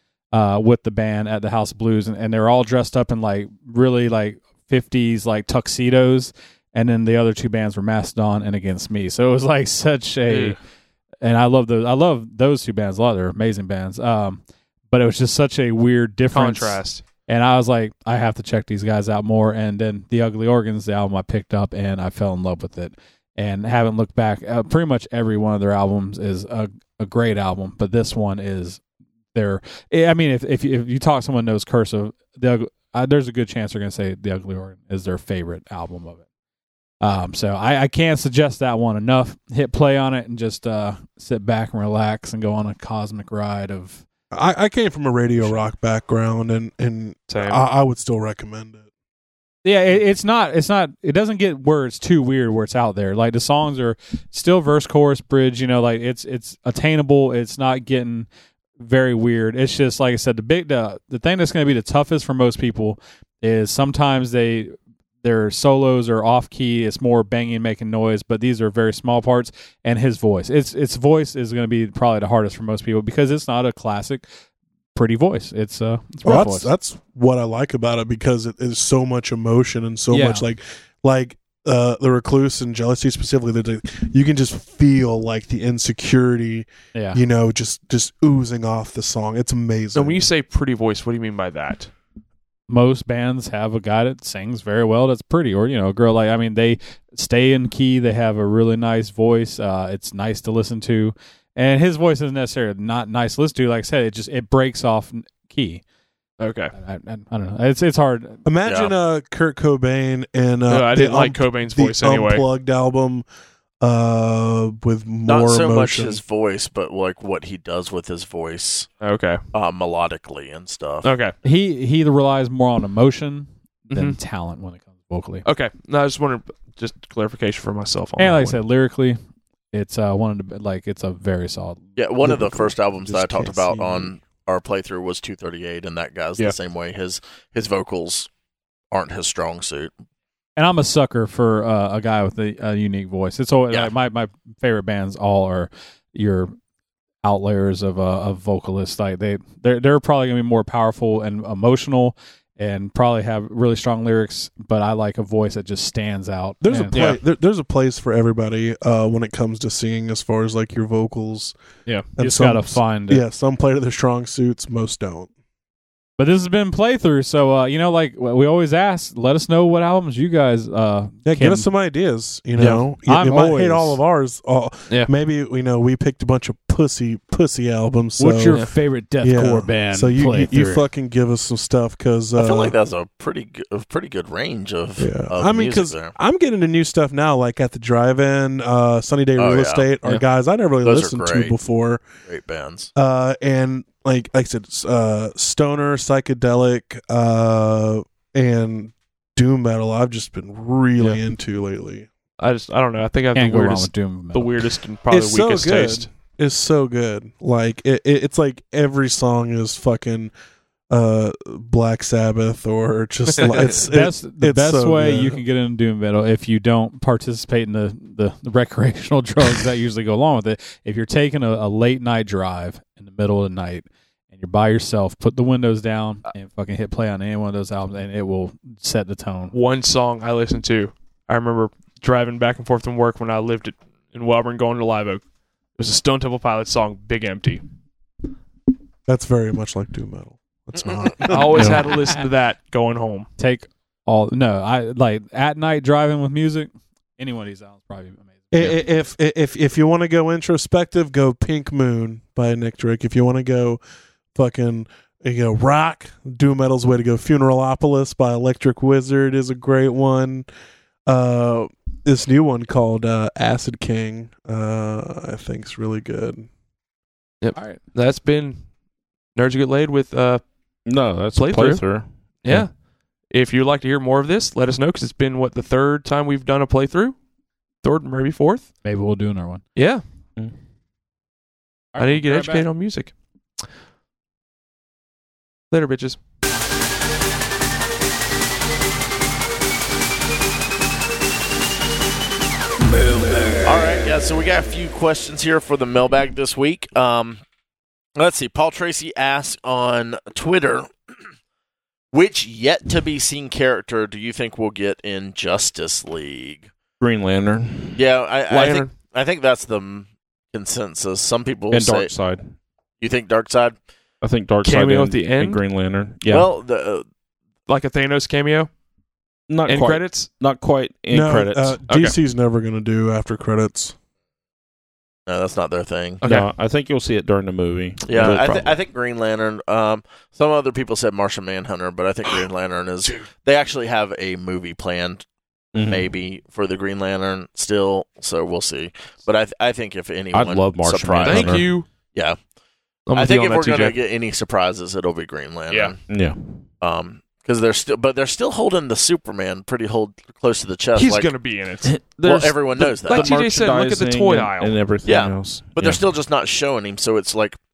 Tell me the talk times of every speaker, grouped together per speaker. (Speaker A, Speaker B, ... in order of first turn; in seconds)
Speaker A: 0.3-10.6, 11.2-28.8, 29.3-36.2, 37.0-44.0, 49.6-58.3, 58.8-74.2, 74.9-76.7, 80.1-80.4, 86.9-87.2, 92.7-105.8, 106.7-108.4, 121.4-125.4, 128.2-129.2, 129.7-131.8, 140.6-146.5, 147.2-157.0, 162.2-163.2, 166.2-171.7, 172.6-174.0, 178.2-180.8, 203.3-204.5, 213.8-229.5, 243.4-248.8, 278.8-279.6, 281.9-282.7
Speaker B: 10.3-10.6, 16.3-17.0, 47.3-47.6, 89.9-91.9, 106.4-106.7, 110.7-112.5, 119.0-119.4, 121.0-121.3, 123.9-124.2, 125.4-128.6, 156.9-157.2, 202.4-206.1, 229.5-235.2, 235.8-237.6, 241.2-243.3, 267.4-268.6, 269.3-270.4, 271.3-272.7, 273.3-277.1, 277.8-278.7, 279.8-280.0, 282.0-283.1, 285.7-286.2, 308.5-308.9, 314.6-315.6, 317.7-318.7, 319.7-320.3, 321.9-322.1, 326.2-326.5, 328.1-328.7, 341.2-341.9, 343.1-344.0, 350.9-351.9, 353.0-354.8
Speaker C: 44.3-48.8, 76.2-90.3, 108.4-113.2, 113.8-116.2, 132.2-134.1, 156.6-161.6, 162.2-165.3, 171.2-178.6, 179.2-182.7, 185.0-192.0, 192.9-202.1, 205.1-210.3, 210.9-215.4, 239.1-241.9, 248.5-253.8, 254.3-260.5, 261.1-266.5, 321.1-323.9
Speaker D: 108.6-108.9, 115.3-118.9, 119.5-121.1, 132.0-138.3, 138.9-139.9, 182.4-186.1, 189.4-189.9, 190.8-191.5, 192.2-192.9, 293.6-297.4, 298.1-300.9, 302.1-306.7, 307.9-312.1, 313.0-313.7, 316.3-317.1, 325.3-326.2, 328.0-335.2, 335.9-342.4, 343.1-346.0, 346.8-351.3, 352.2-353.4, 355.0-357.6
Speaker E: 270.9-272.6, 307.0-308.0, 311.7-312.5, 314.2-316.5, 319.5-321.8, 326.2-328.6, 335.7-336.1, 340.3-341.7, 346.1-346.6, 351.8-356.0